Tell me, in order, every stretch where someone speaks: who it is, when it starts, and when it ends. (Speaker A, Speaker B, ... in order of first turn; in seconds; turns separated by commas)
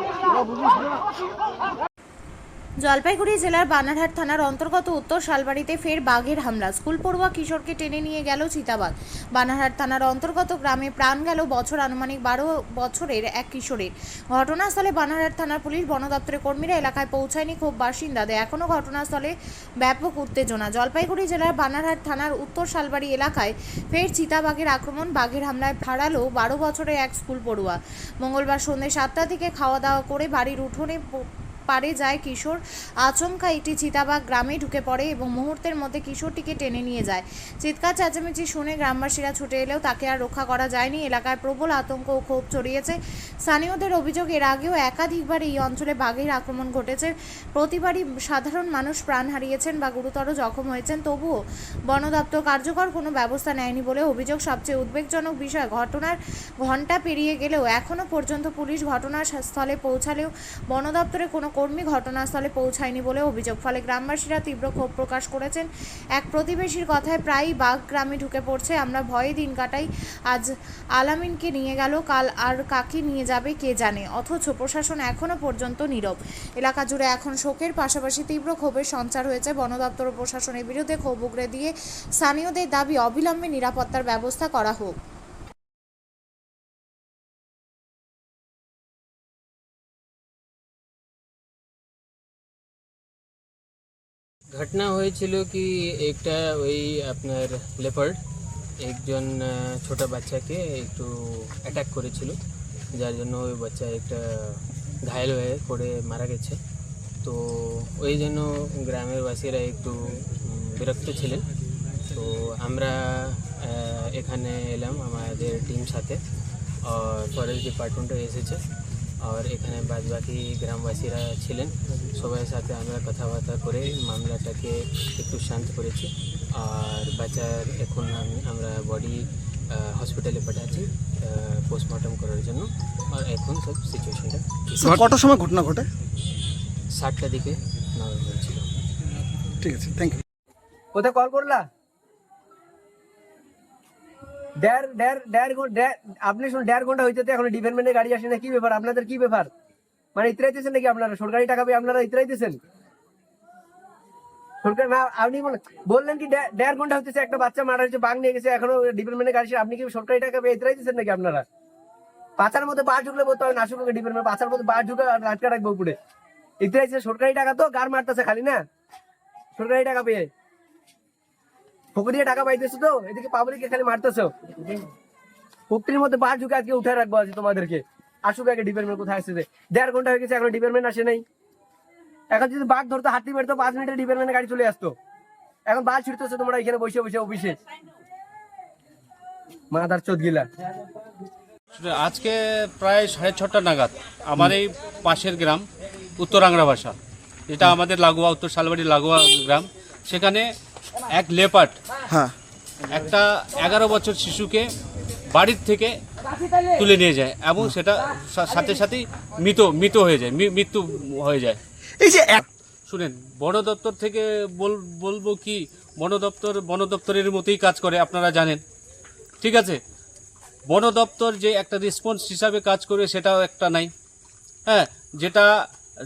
Speaker A: 2.8-31.0, Speaker A: 31.7-51.3, Speaker A: 51.9-84.9, Speaker B: 94.5-98.2, Speaker B: 98.8-102.4, Speaker B: 102.9-106.6, Speaker B: 107.2-111.4, Speaker B: 112.1-116.2, Speaker B: 116.8-118.6, Speaker B: 119.2-135.2, Speaker C: 134.8-135.9, Speaker B: 136.9-138.6, Speaker C: 139.6-140.2, Speaker D: 140.9-141.7, Speaker D: 144.6-149.5, Speaker D: 150.1-152.6, Speaker D: 154.6-161.4, Speaker D: 162.4-165.9, Speaker D: 166.6-168.6, Speaker D: 169.6-170.3, Speaker D: 171.9-174.3, Speaker D: 175.7-181.2, Speaker D: 182.3-184.9, Speaker D: 185.7-187.6, Speaker D: 189.7-190.5, Speaker E: 191.7-195.6, Speaker E: 196.2-196.9, Speaker E: 197.5-200.5, Speaker E: 201.1-201.8, Speaker E: 202.9-204.7, Speaker E: 205.3-205.9, Speaker E: 206.7-211.6, Speaker C: 212.0-212.5, Speaker E: 212.9-218.6, Speaker E: 219.4-219.8, Speaker E: 220.7-223.9, Speaker E: 224.7-225.5